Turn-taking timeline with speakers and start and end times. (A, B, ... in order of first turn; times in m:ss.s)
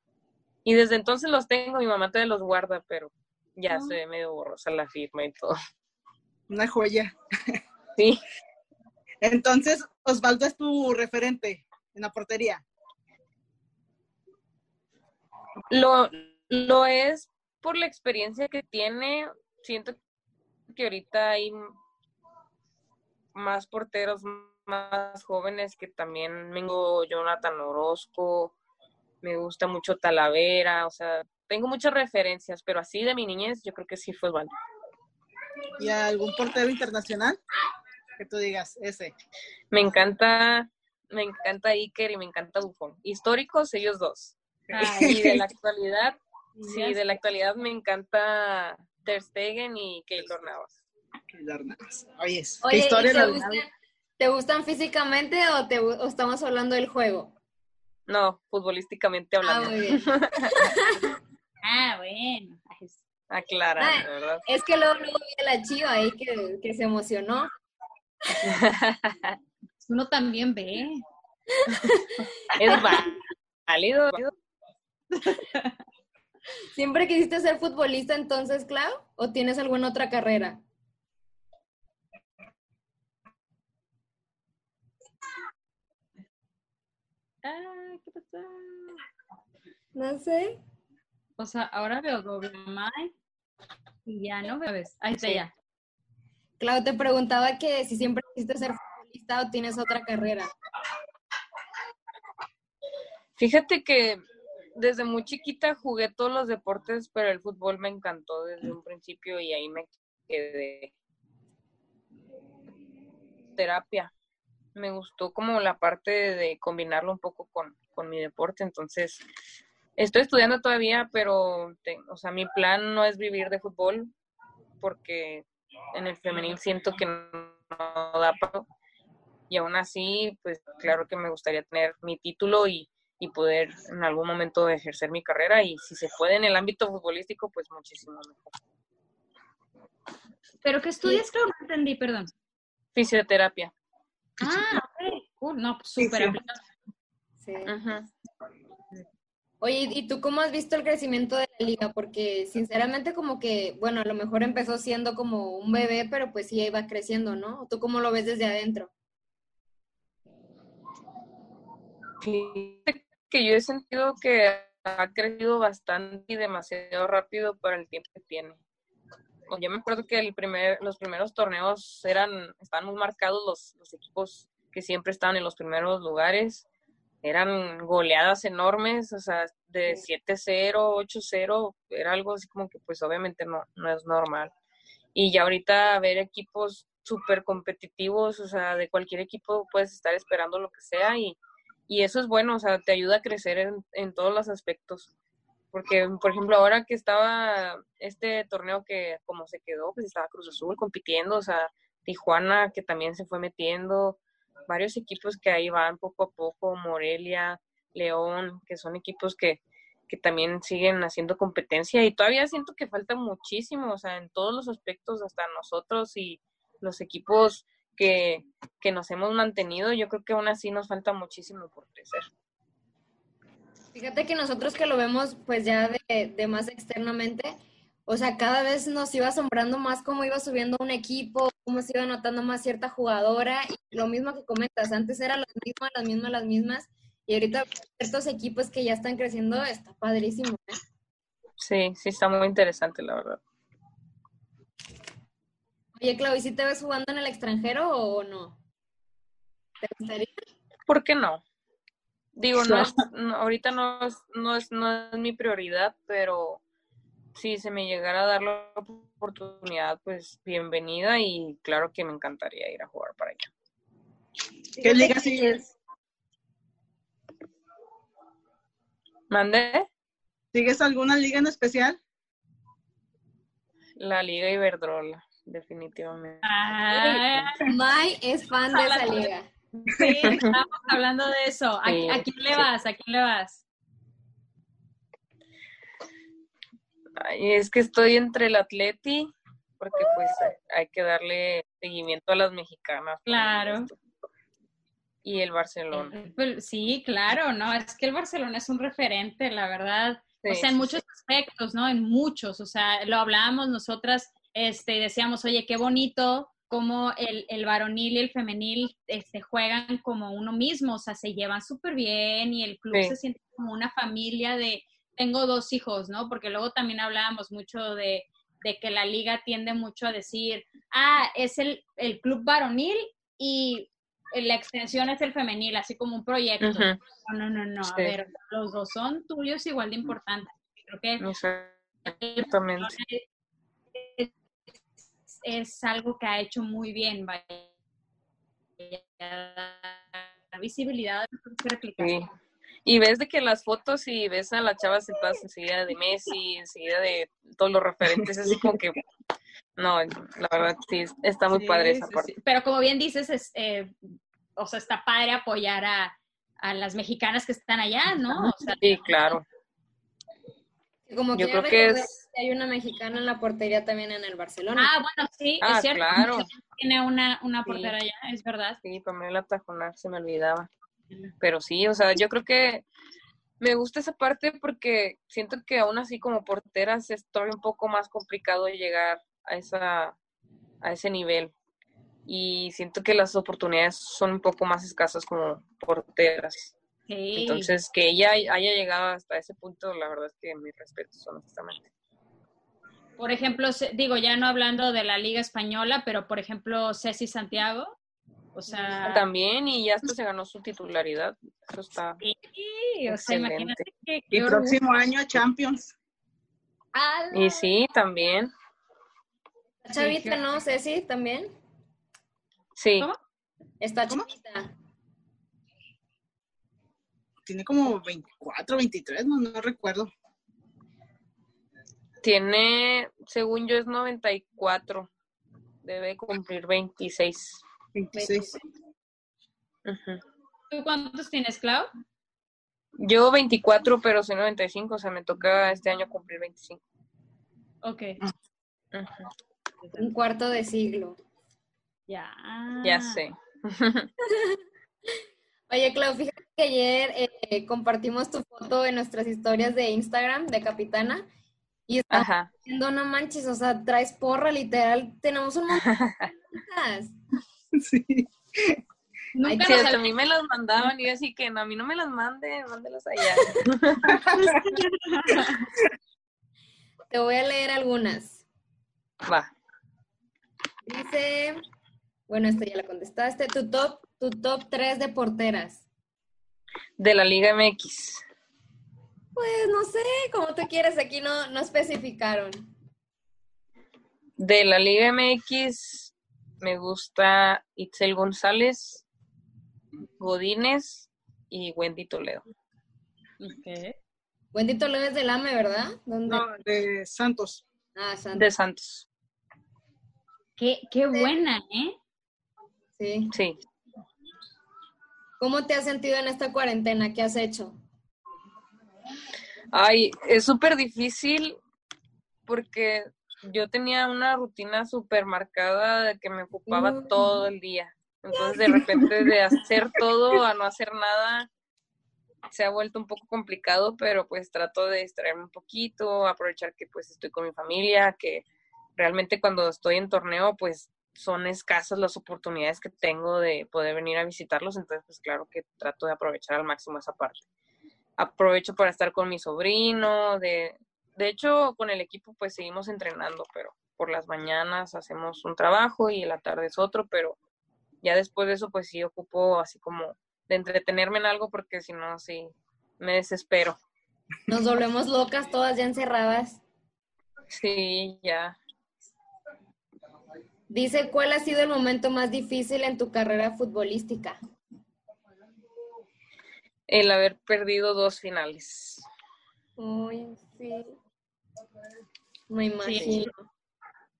0:00.6-0:05.6 A
0:03.7-0:04.0 B
0:06.5-0:07.5 C
0:08.0-0:08.2 A
0:09.2-0:12.6 C
0:15.7-0:20.0 A
0:20.7-0:21.7 A
0:23.3-0:28.5 A
0:29.2-0:34.5 A
0:35.8-0:37.4 C
0:38.2-0:39.1 C
0:39.7-0:50.8 A
0:44.7-0:45.2 B
0:44.8-0:45.4 C
0:46.6-0:47.0 B
0:51.3-0:53.6 C
0:52.6-0:53.7 D
0:54.2-0:57.4 D
0:58.1-1:00.7 A
0:59.4-1:01.1 D
1:01.6-1:03.0 B
1:03.3-1:04.4 A
1:03.8-1:07.5 D
1:08.4-1:09.4 A
1:09.8-1:11.0 B
1:12.5-1:14.2 A
1:15.1-1:15.8 B
1:16.7-1:20.6 D
1:27.4-1:29.0 B
1:29.9-1:30.6 D
1:31.4-1:33.1 B
1:34.0-1:35.5 B
1:36.6-1:40.5 D
1:43.4-1:44.2 A
1:44.8-1:50.9 A
1:53.6-1:54.1 A
1:54.7-1:59.2 A
2:00.0-2:04.1 A
2:04.8-2:08.7 A
2:09.5-2:18.5 A
2:20.6-2:22.3 B
2:23.0-2:23.7 A
2:24.4-2:26.6 B
2:26.0-2:26.4 C
2:27.4-2:27.7 D
2:27.6-2:28.1 A
2:29.6-2:38.9 D
2:42.2-2:48.6 A
2:49.5-2:56.6 A
2:57.2-3:04.5 A
3:05.1-3:11.4 A
3:11.9-3:15.1 A
3:15.7-3:42.3 A
3:43.9-3:47.5 D
3:48.1-4:00.8 D
4:01.6-4:03.4 A
4:06.0-4:08.6 D
4:09.8-4:10.3 D
4:10.9-4:11.4 A
4:12.4-4:16.6 A
4:17.3-4:23.5 A
4:24.8-4:25.6 D
4:24.8-4:25.6 C
4:29.3-4:29.9 A
4:30.5-4:32.0 C
4:34.0-4:37.5 A
4:36.4-4:37.6 B
4:37.6-4:39.5 D
4:38.7-4:43.6 B
4:40.2-4:40.6 A
4:41.8-4:42.6 A
4:47.2-4:53.9 A
4:53.2-4:53.9 B
4:55.2-4:56.1 A
4:55.9-5:31.2 B
5:00.4-5:00.9 A
5:26.6-5:27.0 A
5:27.8-5:28.1 A
5:31.2-5:32.9 A
5:32.1-5:33.2 B
5:34.0-5:34.3 B
5:35.4-5:37.7 B
5:38.8-5:42.2 B
5:42.0-5:42.3 A
5:42.8-5:49.0 A
5:49.8-5:52.3 A
5:51.5-5:58.8 B
5:58.4-5:59.4 A
6:01.1-6:04.9 D
6:01.4-6:02.1 A
6:04.8-6:08.8 B
6:05.6-6:06.5 A
6:07.6-6:07.9 A
6:08.8-6:10.7 A
6:11.4-6:12.8 A
6:13.6-6:20.2 A
6:20.8-6:21.5 A
6:22.2-6:26.7 A
6:27.1-6:27.7 B
6:27.3-6:31.9 A
6:33.2-6:37.9 B
6:38.5-6:39.2 B
6:39.0-6:42.2 A
6:42.2-6:44.8 B
6:43.1-6:43.8 A
6:44.3-6:45.9 C
6:46.9-6:47.6 B
6:47.3-6:48.5 A
6:49.8-6:51.5 D
6:50.0-6:50.4 B
6:52.8-6:53.1 A
6:53.8-6:54.7 D
6:57.4-7:00.1 C
7:02.2-7:05.1 A
7:05.8-7:07.6 A
7:08.0-7:08.5 C
7:09.8-7:10.2 A
7:10.7-7:11.9 B
7:13.0-7:16.8 A
7:17.8-7:18.2 B
7:18.9-7:19.3 A
7:20.0-7:21.2 D
7:22.1-7:23.2 B
7:22.8-7:24.1 A
7:24.2-7:24.6 D
7:25.7-7:31.2 D
7:31.9-7:35.9 D
7:32.1-7:32.5 A
7:35.8-7:36.3 A
7:36.5-7:37.1 D
7:37.8-7:38.8 C
7:39.3-7:40.0 B
7:39.4-7:39.9 D
7:39.6-7:44.2 A
7:44.0-7:44.4 C
7:44.2-7:45.7 B
7:47.1-7:48.4 D
7:50.8-7:51.6 D
7:52.3-7:55.8 D
7:57.0-7:58.2 A
7:59.3-8:02.6 D
8:04.4-8:09.0 A
8:10.2-8:12.4 A
8:13.4-8:13.9 B
8:14.5-8:16.5 D
8:16.3-8:17.6 C
8:17.9-8:18.4 D
8:18.3-8:19.0 A
8:20.6-8:22.0 B
8:23.0-8:23.3 D
8:23.3-8:23.6 A
8:25.4-8:27.8 D
8:29.7-8:31.6 A
8:32.5-8:41.5 A
8:36.7-8:37.2 D
8:38.6-8:39.0 D
8:42.5-8:48.4 A
8:49.0-8:57.4 A
8:58.2-9:07.4 A
9:08.0-9:13.8 A
9:14.5-9:16.6 D
9:17.5-9:18.6 A
9:20.7-9:24.4 D
9:26.9-9:29.0 A
9:29.8-9:31.0 D
9:32.5-9:33.3 D
9:32.8-9:33.2 B
9:33.0-9:33.3 A